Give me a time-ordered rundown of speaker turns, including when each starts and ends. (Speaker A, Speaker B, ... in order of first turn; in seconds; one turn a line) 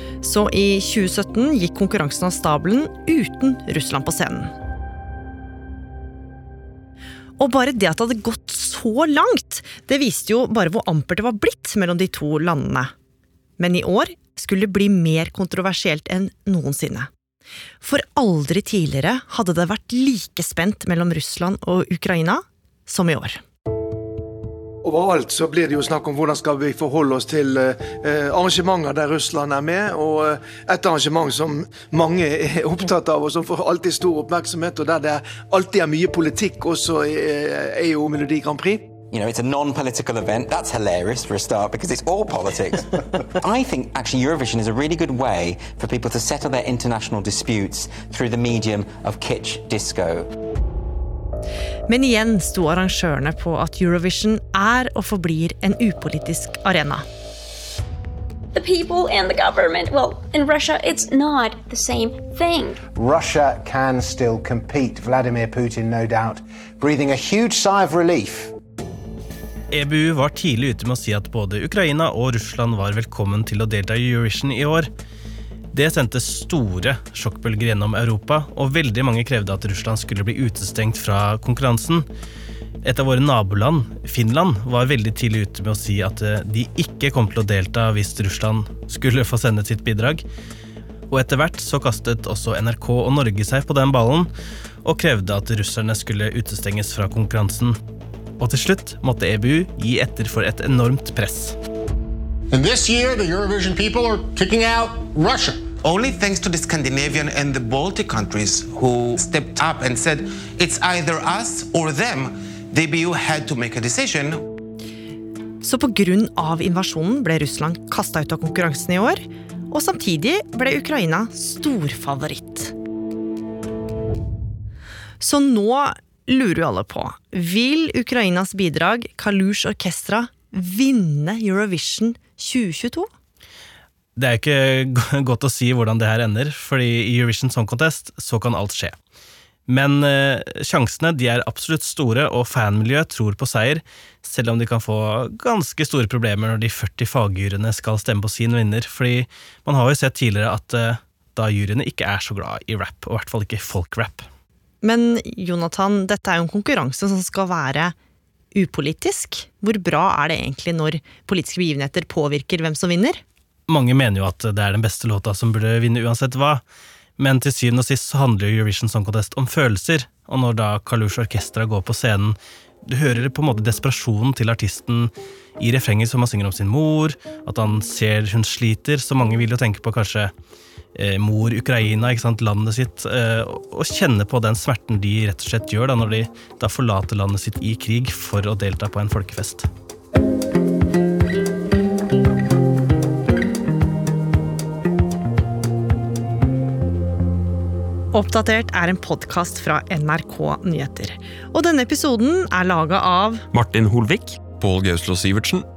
Speaker A: 0.2-4.5
Speaker A: 7.4-12.9
Speaker A: 13.6-17.1
Speaker A: 17.8-23.4
Speaker B: 24.8-38.9
Speaker C: 39.1-50.3
Speaker A: 51.9-57.0
Speaker D: 58.5-62.8
Speaker E: 63.0-68.5
Speaker F: 69.7-74.9
Speaker F: 75.7-82.1
Speaker F: 82.8-90.2
Speaker F: 91.1-94.3
Speaker F: 94.8-97.8
Speaker F: 98.4-101.6
Speaker G: 102.5-105.6
Speaker H: 105.8-114.4
Speaker A: 115.6-122.7
Speaker A: 125.2-133.1
Speaker F: 134.2-138.9
Speaker F: 139.7-154.3
Speaker A: 154.8-157.9
Speaker A: 158.5-163.2
Speaker F: 163.7-166.6
Speaker F: 167.2-180.3
Speaker F: 180.9-189.7
Speaker A: 198.1-203.4